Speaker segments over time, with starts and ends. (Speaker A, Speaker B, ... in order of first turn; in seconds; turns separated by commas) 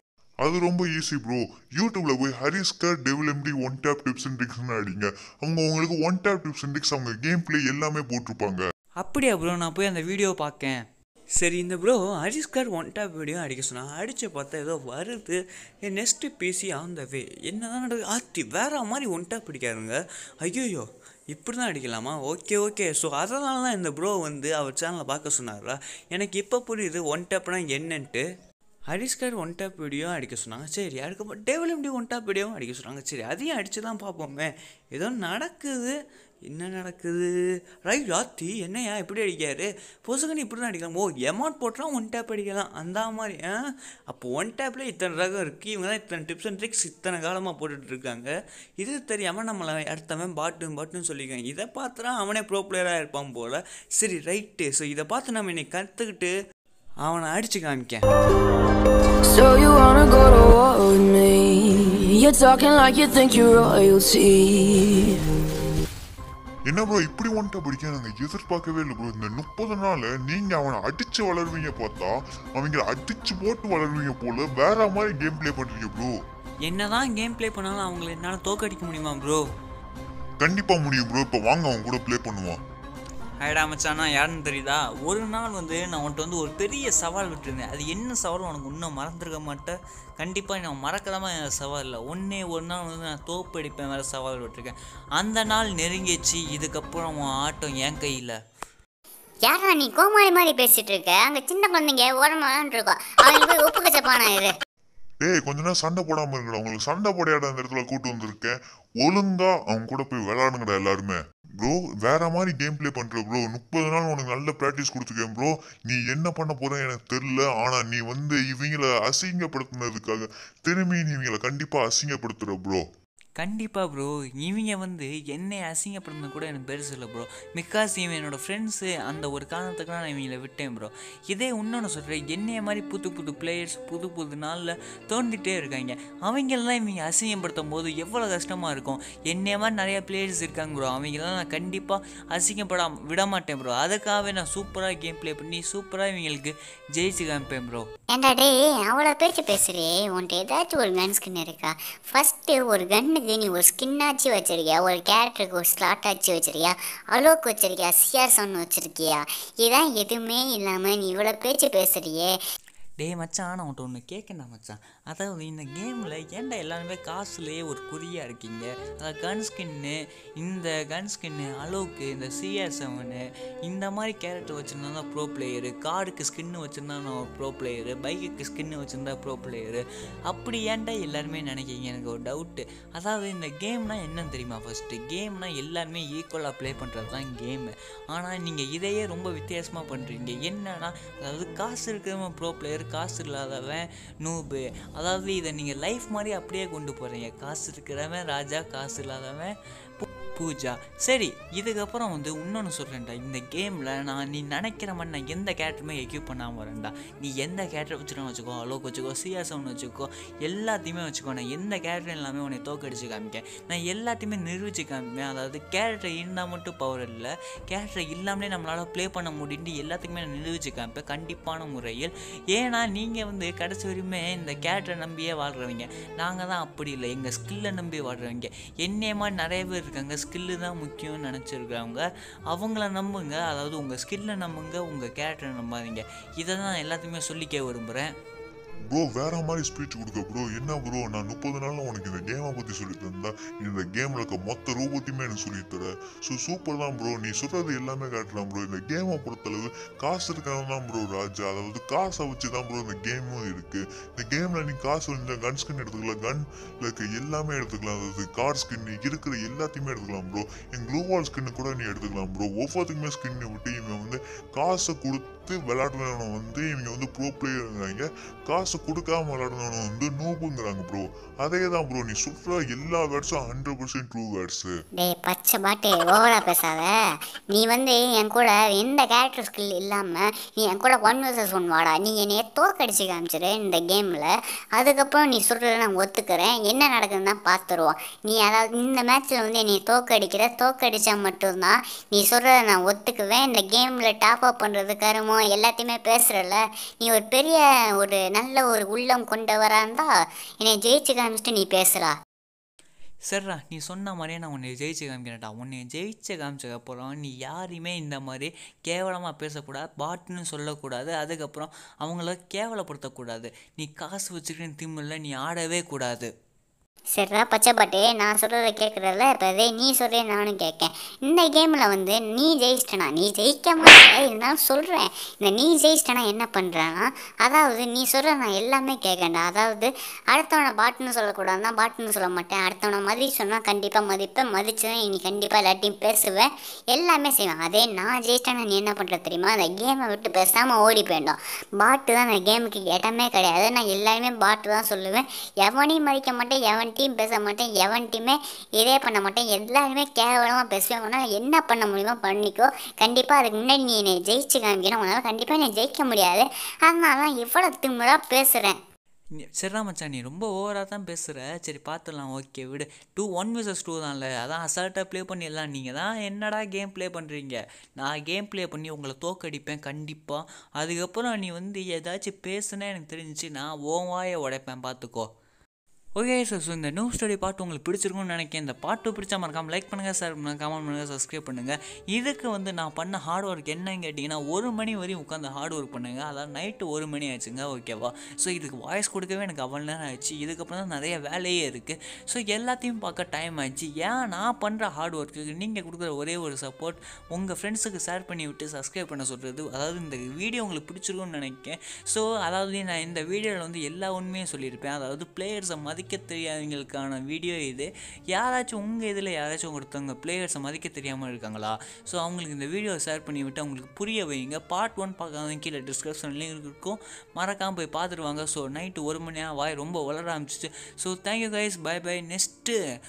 Speaker A: 0.4-8.6, Speaker B: 9.0-10.8, Speaker B: 11.4-28.2, Speaker B: 28.9-36.0, Speaker B: 36.5-37.3, Speaker B: 37.8-56.3, Speaker B: 57.0-58.1, Speaker C: 59.2-65.2, Speaker A: 66.7-76.1, Speaker B: 76.7-79.5, Speaker A: 80.4-82.6, Speaker B: 83.4-98.4, Speaker D: 99.5-104.5, Speaker A: 105.2-122.8, Speaker B: 123.4-147.8, Speaker D: 148.1-162.4, Speaker B: 163.0-238.1, Speaker A: 238.9-274.8, Speaker D: 275.0-302.2, Speaker B: 303.3-316.3, Speaker D: 317.2-358.8, Speaker B: 359.4-375.3, Speaker B: 376.2-422.8